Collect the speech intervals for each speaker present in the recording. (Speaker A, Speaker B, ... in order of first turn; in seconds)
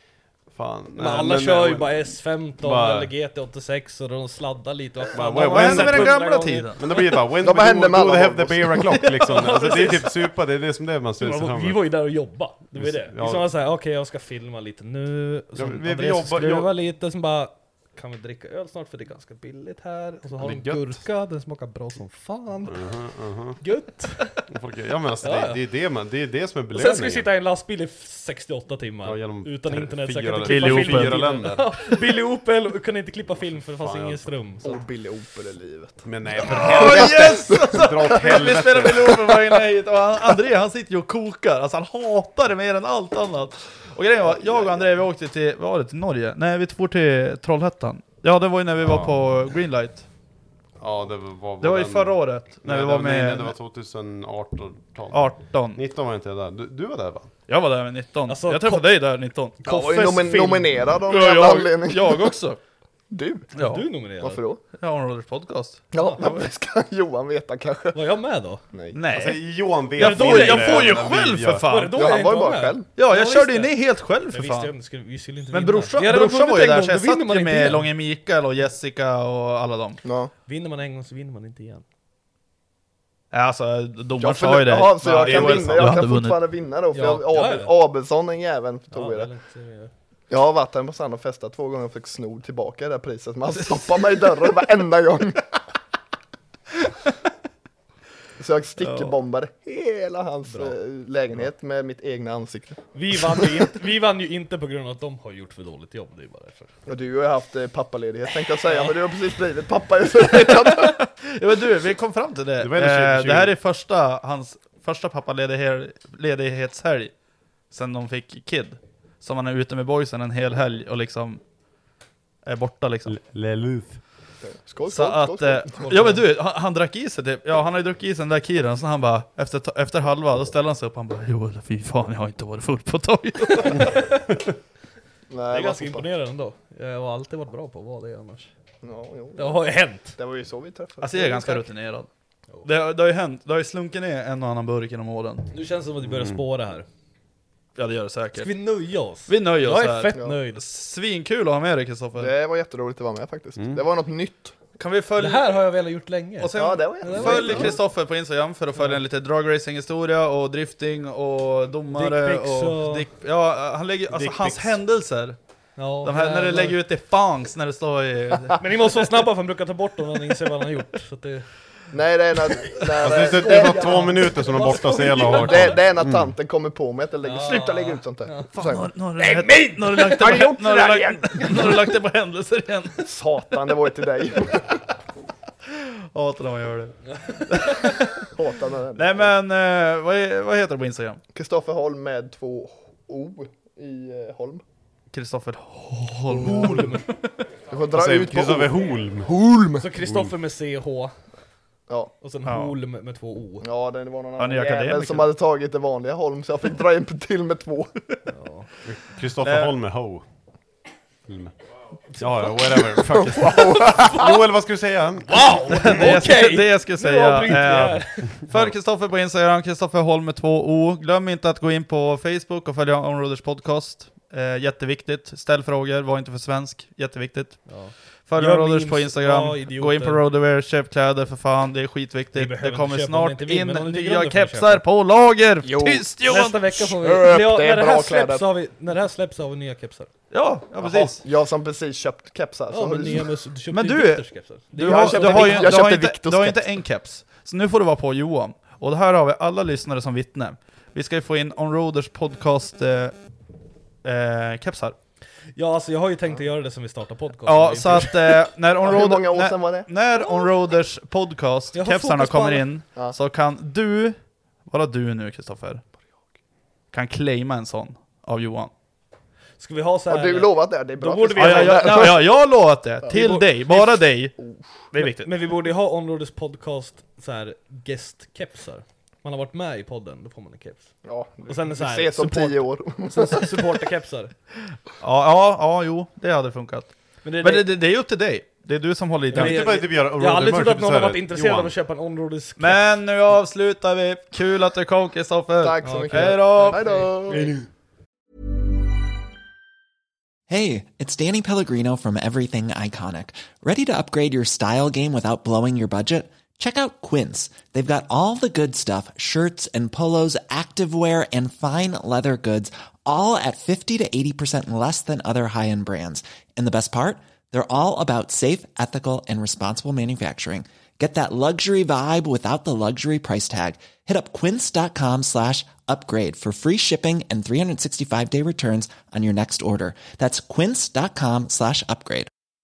Speaker A: 0.5-3.1, 5.1-11.9, 12.8-13.5, 15.6-16.7, 20.4-21.0, 22.7-23.6, 24.5-27.3, 29.0-31.8, 33.8-34.4, 36.0-39.3, 48.8-49.2, 50.8-57.3, 69.1-71.7, 85.1-86.0, 112.6-113.6, 123.1-124.0, 146.0-146.4, 153.6-153.8, 164.1-164.8, 173.0-176.3, 197.9-199.4, 200.0-200.4, 208.8-210.2, 211.3-211.5, 212.2-215.9, 218.5-218.7, 289.3-291.7
Speaker B: 1.0-6.9, 9.2-10.3, 11.2-22.9, 23.6-24.4, 25.2-25.6, 26.7-34.8, 58.3-58.9, 59.6-60.7, 63.6-64.4, 66.0-66.2, 67.9-68.6, 70.0-71.2, 71.7-77.9, 80.5-81.8, 86.9-87.7, 88.9-89.9, 100.5-100.8, 103.0-106.7, 108.7-109.0, 125.8-126.2, 133.5-134.1, 135.5-138.5, 139.4-140.2, 145.5-146.9, 148.3-150.6, 155.2-157.8, 161.9-163.1, 165.8-166.8, 168.6-171.5, 173.0-175.8, 177.2-178.5, 179.2-180.5, 181.4-181.7, 187.1-187.4, 196.4-197.1, 199.8-201.1, 202.2-203.7, 208.3-208.7, 215.3-218.4, 227.7-230.2, 232.3-234.8, 236.3-240.1, 242.7-245.9, 255.6-258.5, 261.7-262.7, 269.6-272.2, 274.9-280.9, 281.5-284.3, 287.2-287.7, 289.3-293.0, 295.8-297.5
Speaker C: 5.4-6.8, 30.4-31.2, 36.5-50.1, 51.6-53.5, 55.1-55.8, 57.5-59.6, 61.1-62.6, 63.5-63.9, 64.8-65.8, 68.9-72.0, 73.0-74.7, 75.5-80.0, 83.3-86.4, 98.8-99.1, 110.9-117.1, 117.7-121.4, 122.5-123.2, 124.9-133.9, 141.0-142.1, 142.6-145.4, 147.8-148.5, 149.3-152.3, 154.8-155.6, 156.4-165.4, 166.0-168.6, 178.5-183.0, 186.1-186.9, 187.5-188.2, 189.0-191.2, 195.1-197.3, 202.5-202.8, 204.4-205.3, 209.4-209.7, 215.7-227.7, 228.3-236.6, 240.3-241.2, 243.7-253.2, 254.0-255.0, 257.5-264.2, 264.7-265.8, 266.9-268.7, 271.4-274.4, 274.9-275.3, 285.0-289.7, 292.6-297.4
Speaker D: 7.4-9.1, 34.6-38.3, 44.2-45.0, 59.6-62.4, 63.1-63.5, 64.2-64.6, 65.9-68.0, 68.7-69.0, 72.0-72.9, 80.0-80.3, 84.2-89.3, 90.3-95.5, 98.4-102.8, 106.9-111.0, 124.4-126.1, 135.3-136.1, 138.8-141.7, 152.2-154.6, 156.5-157.8, 171.9-174.1, 174.7-178.9, 180.2-181.7, 183.0-184.8, 188.2-189.3, 191.3-194.6, 197.7-199.8, 203.6-207.9, 212.9-214.4, 235.6-238.5, 240.8-243.3, 244.8-246.6, 258.8-259.9, 270.1-272.3, 273.1-274.6, 281.1-283.6, 295.6-297.6
Speaker E: 300.5-307.9, 310.5-312.3, 313.1-314.6, 317.5-318.9, 321.0-322.2, 323.1-332.3